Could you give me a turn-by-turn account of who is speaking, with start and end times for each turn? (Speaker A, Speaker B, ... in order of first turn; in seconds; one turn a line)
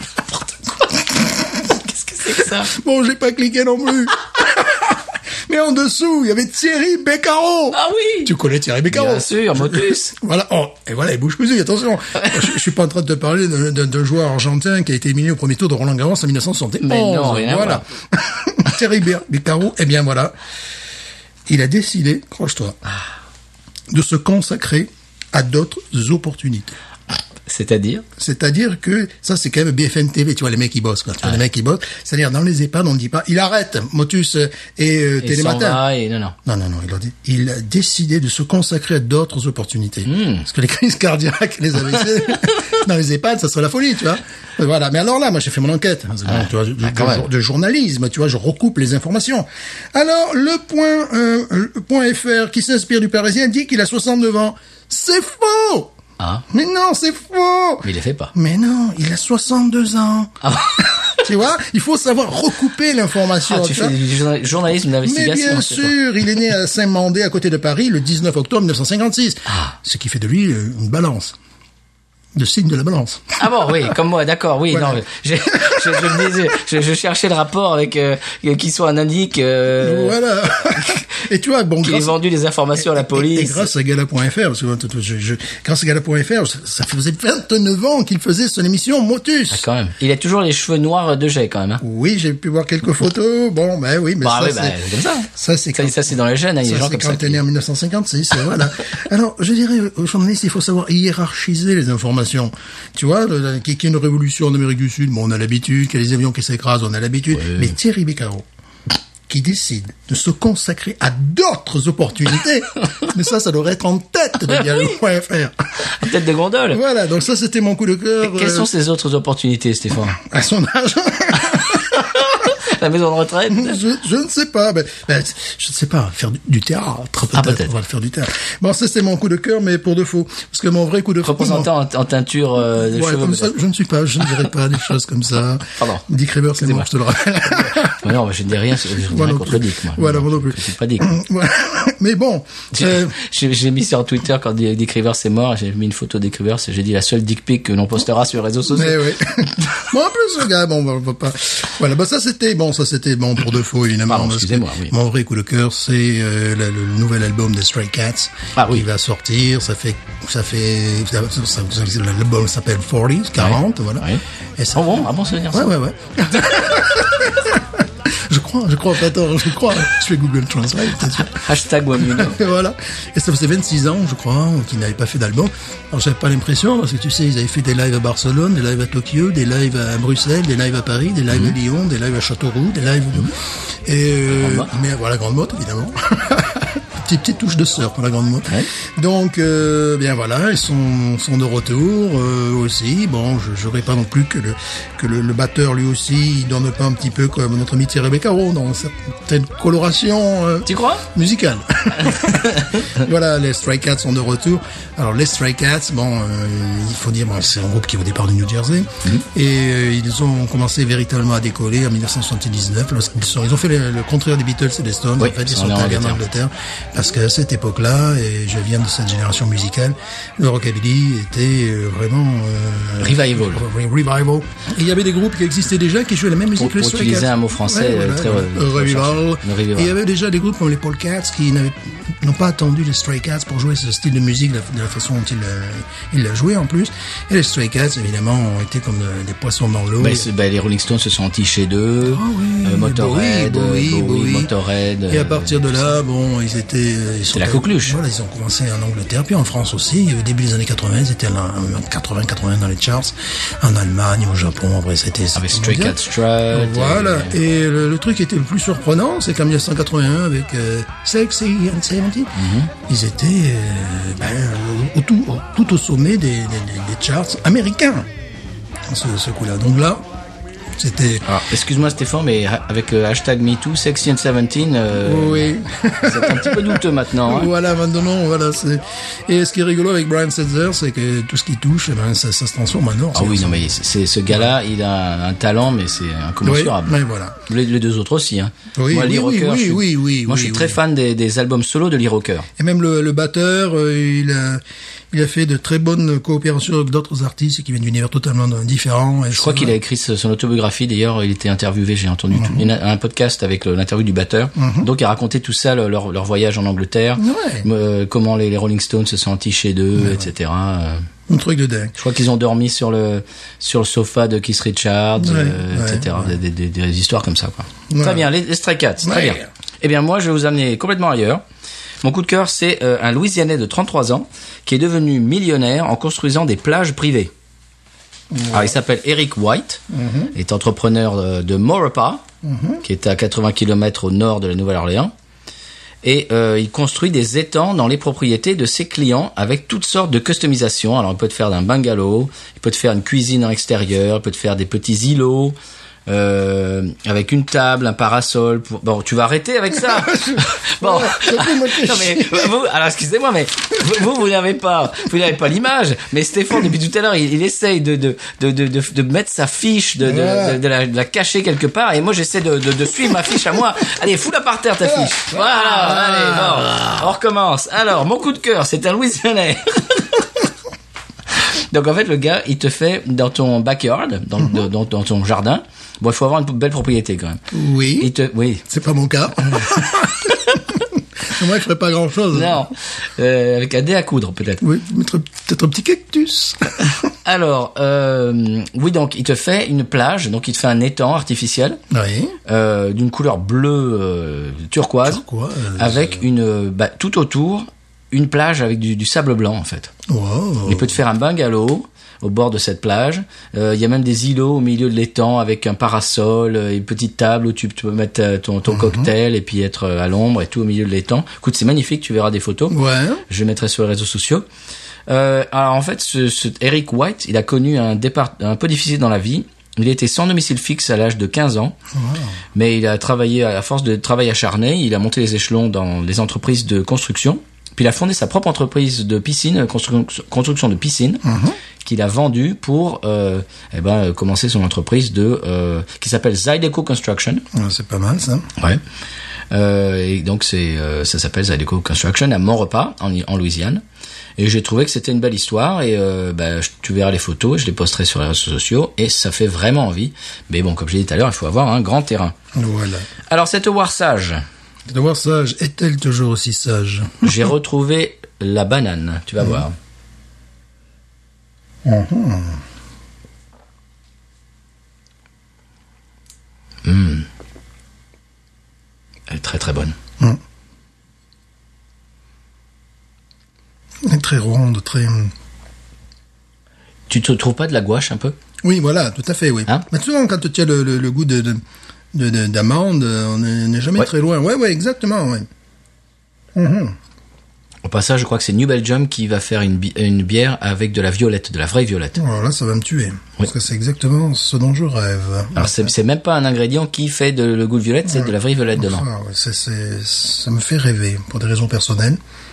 Speaker A: 0.3-1.3
Speaker B: 1.6-2.7
Speaker A: 2.3-20.3
Speaker B: 7.7-8.3
Speaker B: 8.9-10.1
Speaker B: 16.8-17.9
Speaker A: 21.5-22.8
Speaker A: 23.9-26.8
Speaker B: 27.5-28.1
Speaker A: 28.2-35.8
Speaker B: 35.2-36.4
Speaker A: 36.5-55.9
Speaker B: 40.1-40.5
Speaker B: 46.3-47.3
Speaker B: 56.2-56.5
Speaker A: 56.5-60.4
Speaker B: 57.8-58.3
Speaker B: 60.4-61.2
Speaker A: 61.1-64.0
Speaker B: 63.5-66.0
Speaker A: 65.0-71.4
Speaker B: 69.5-69.8
Speaker A: 72.3-73.4
Speaker B: 73.4-80.2
Speaker A: 74.7-76.5
Speaker A: 79.8-82.2
Speaker B: 81.8-83.7
Speaker A: 82.8-89.7
Speaker B: 89.5-91.8
Speaker A: 91.8-94.8
Speaker B: 94.2-97.4
Speaker A: 95.3-108.5
Speaker B: 107.3-107.7
Speaker A: 109.3-115.5
Speaker B: 115.9-116.8
Speaker A: 116.7-118.7
Speaker B: 118.2-120.2
Speaker A: 120.1-122.1
Speaker B: 121.9-123.8
Speaker A: 123.5-131.7
Speaker B: 127.3-127.7
Speaker B: 131.2-133.5
Speaker A: 132.7-138.2
Speaker B: 135.8-136.1
Speaker B: 136.6-136.9
Speaker B: 137.4-141.1
Speaker A: 138.9-143.2
Speaker B: 142.8-149.1
Speaker A: 148.7-164.9
Speaker B: 154.1-154.9
Speaker B: 158.6-158.8
Speaker B: 163.4-164.2
Speaker B: 164.7-165.7
Speaker A: 165.5-171.4
Speaker B: 171.1-172.4
Speaker A: 172.0-240.3
Speaker B: 184.3-184.7
Speaker B: 200.7-201.1
Speaker B: 202.1-202.6
Speaker B: 215.2-216.2
Speaker B: 223.0-223.6
Speaker B: 226.6-229.9
Speaker B: 240.0-245.8
Speaker A: 242.1-244.5
Speaker A: 245.1-256.0
Speaker B: 247.3-248.0
Speaker B: 255.3-257.4
Speaker A: 256.5-262.3
Speaker B: 262.4-262.7
Speaker A: 262.9-268.1
Speaker A: 268.9-270.0
Speaker A: 270.8-271.3
Speaker B: 271.2-275.5
Speaker A: 275.0-283.7
Speaker B: 276.0-277.5
Speaker B: 283.1-292.5
Speaker A: 286.4-287.4
Speaker A: 288.8-290.8
Speaker A: 292.6-299.8
Speaker B: 299.3-311.1
Speaker A: 302.3-302.7
Speaker A: 304.6-304.9
Speaker A: 307.2-307.7
Speaker A: 310.0-310.3
Speaker A: 311.3-311.9
Speaker B: 311.9-321.4
Speaker A: 315.2-316.3
Speaker A: 317.9-318.3
Speaker A: 319.0-319.4
Speaker B: 322.0-327.3
Speaker A: 328.3-328.8
Speaker B: 328.5-329.8
Speaker A: 329.9-330.3
Speaker B: 330.3-332.2
Speaker A: 332.4-332.8
Speaker B: 332.8-335.1
Speaker B: 336.0-345.6
Speaker B: 346.1-370.3
Speaker A: 349.8-352.5
Speaker A: 360.0-360.6
Speaker A: 364.8-367.1
Speaker B: 371.4-377.4
Speaker A: 377.5-378.1
Speaker B: 378.0-378.6
Speaker A: 378.7-382.7
Speaker B: 382.3-384.6
Speaker A: 384.6-386.7
Speaker B: 387.2-391.8
Speaker A: 391.9-392.4
Speaker B: 392.5-395.2
Speaker A: 395.0-396.3
Speaker B: 395.8-399.9
Speaker A: 400.1-401.0
Speaker B: 400.7-414.4
Speaker A: 408.7-409.1
Speaker A: 412.7-413.2
Speaker B: 415.1-421.8
Speaker A: 421.9-422.4
Speaker B: 422.6-431.2
Speaker A: 431.2-431.6
Speaker B: 431.8-437.4
Speaker A: 437.5-438.5
Speaker B: 439.5-443.8
Speaker B: 444.4-452.4
Speaker A: 452.5-453.1
Speaker B: 453.3-454.4
Speaker A: 454.9-457.4
Speaker B: 457.2-459.8
Speaker A: 461.9-462.6
Speaker B: 466.9-467.3
Speaker B: 469.3-469.9
Speaker A: 474.0-475.3
Speaker B: 477.1-478.4
Speaker A: 478.6-481.6
Speaker A: 482.1-485.5
Speaker A: 486.6-487.0
Speaker B: 487.8-492.2
Speaker A: 492.2-495.9
Speaker B: 495.6-499.1
Speaker A: 498.1-502.2